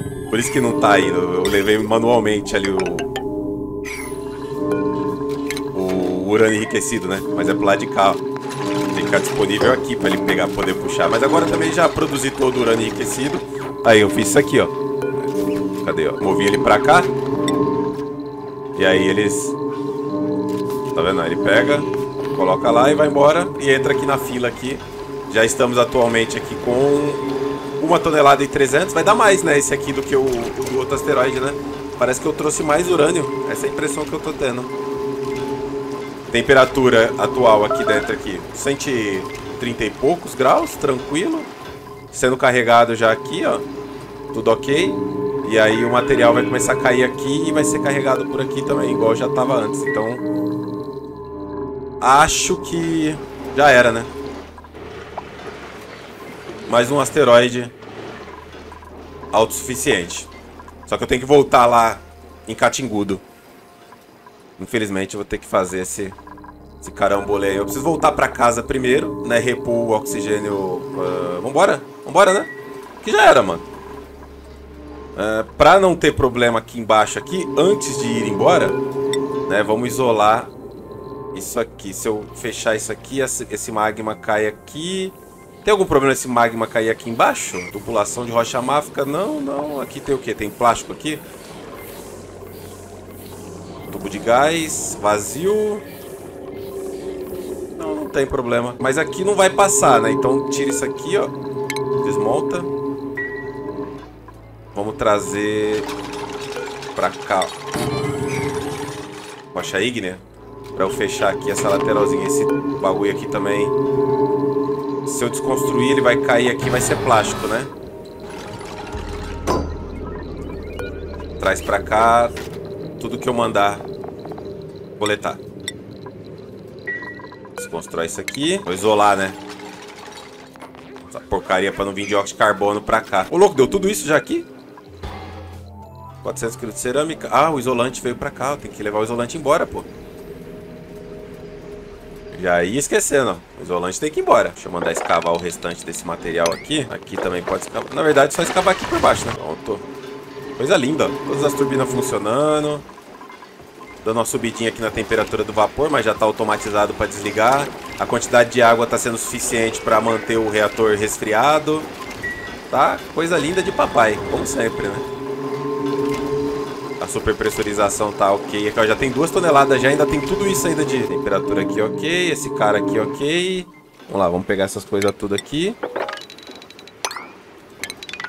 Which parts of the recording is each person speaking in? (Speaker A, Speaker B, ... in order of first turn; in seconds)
Speaker A: 0.3-3.1, 5.7-8.2, 8.9-14.7, 15.8-17.1, 18.8-19.6, 20.9-27.2, 27.8-34.7, 36.3-41.5, 42.1-43.7, 44.3-50.2, 52.0-54.1, 56.7-57.7, 59.3-60.3, 60.9-63.2, 64.6-66.2, 66.8-72.5, 73.0-73.7, 75.2-78.8, 79.5-80.5, 81.3-91.2, 93.9-95.8, 97.8-101.3, 102.0-102.7, 104.7-105.9, 106.9-107.5, 109.5-110.2, 110.8-113.7, 115.0-117.7, 121.4-122.4, 123.0-123.8, 125.0-125.4, 127.6-129.4, 131.1-134.5, 136.2-139.9, 142.3-149.9, 150.6-152.9, 154.0-161.9, 162.7-165.1, 167.0-175.8